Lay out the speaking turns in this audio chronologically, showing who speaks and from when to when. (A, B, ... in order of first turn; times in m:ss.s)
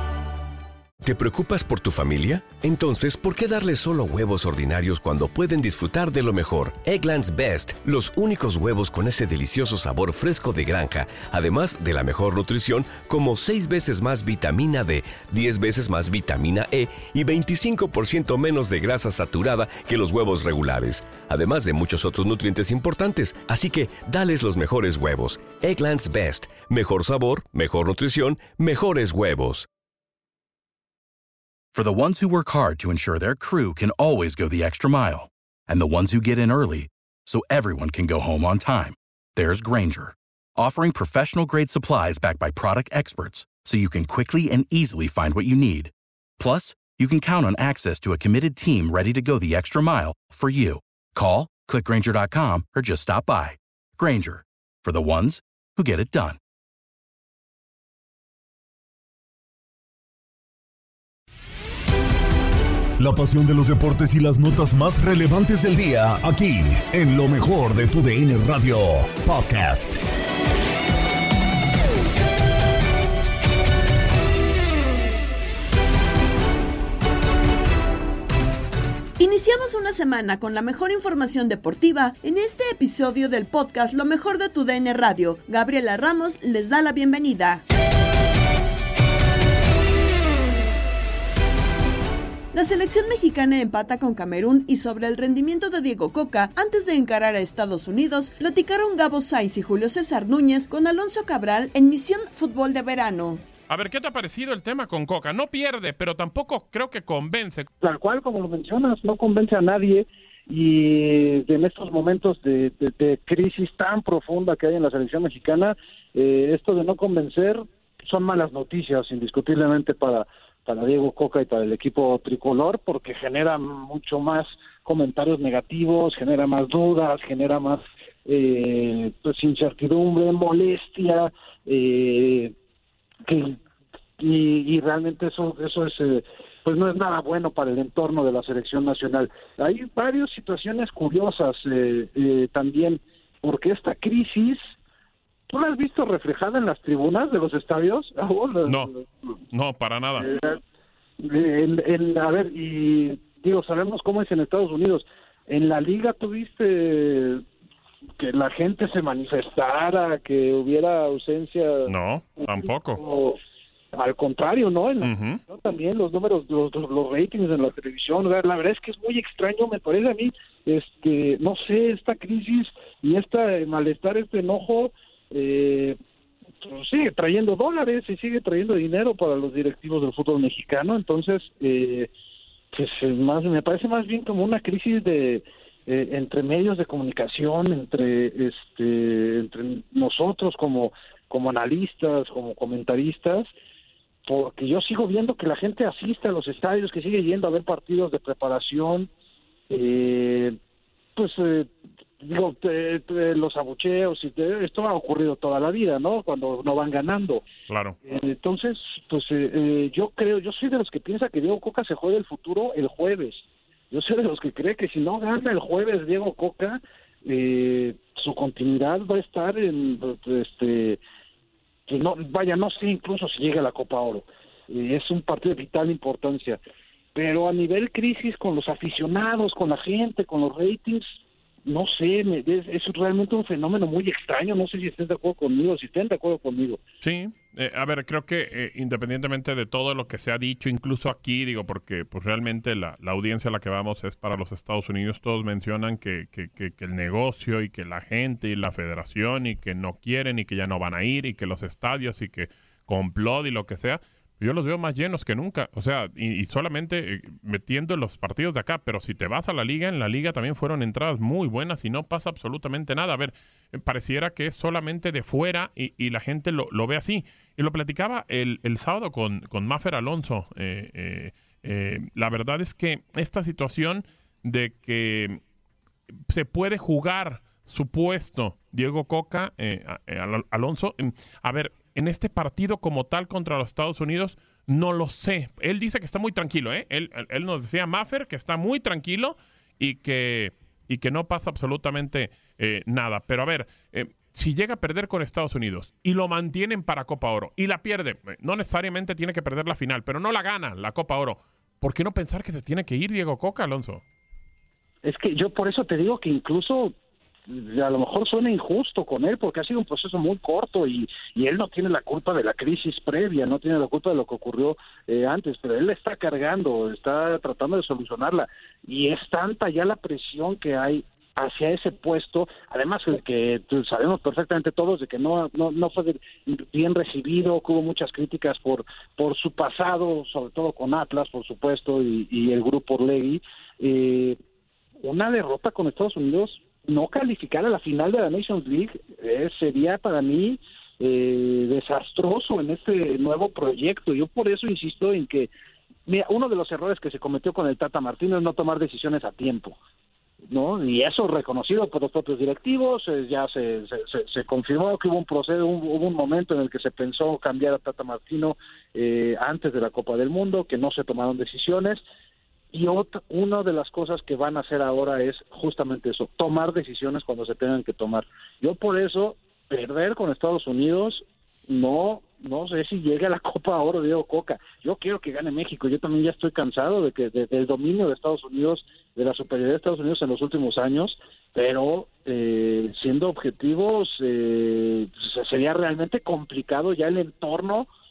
0:01.0-0:29.7 A
0:31.7-0:56.4 B
1:03.0-1:09.9 C
1:19.2-1:27.6 D
1:32.5-1:43.4 D
1:43.7-1:47.7 E
1:47.8-2:12.5 F
2:13.2-2:13.6 F
2:14.2-2:24.6 F
2:25.5-2:29.0 F
2:28.7-2:28.9 E
2:29.5-2:30.3 E
2:30.2-2:30.6 F
2:31.2-2:37.4 F
2:38.2-2:43.4 F
2:41.9-2:43.0 E
2:44.0-2:56.0 F
2:45.0-2:45.4 E
2:56.6-3:02.1 F
3:02.7-3:13.5 F
3:14.3-3:19.1 F
3:19.7-3:20.6 F
3:21.2-3:27.4 F
3:27.7-3:28.0 E
3:28.1-3:41.0 F
3:41.9-3:46.6 F
3:47.2-3:51.1 F
3:51.7-3:56.8 F
3:57.0-4:35.4 E
4:36.3-5:04.0 E
5:05.0-5:07.0 F
5:07.5-5:34.4 F
5:35.0-5:45.5 F
5:46.1-5:49.8 F
5:50.5-6:02.0 F
6:02.7-6:27.9 F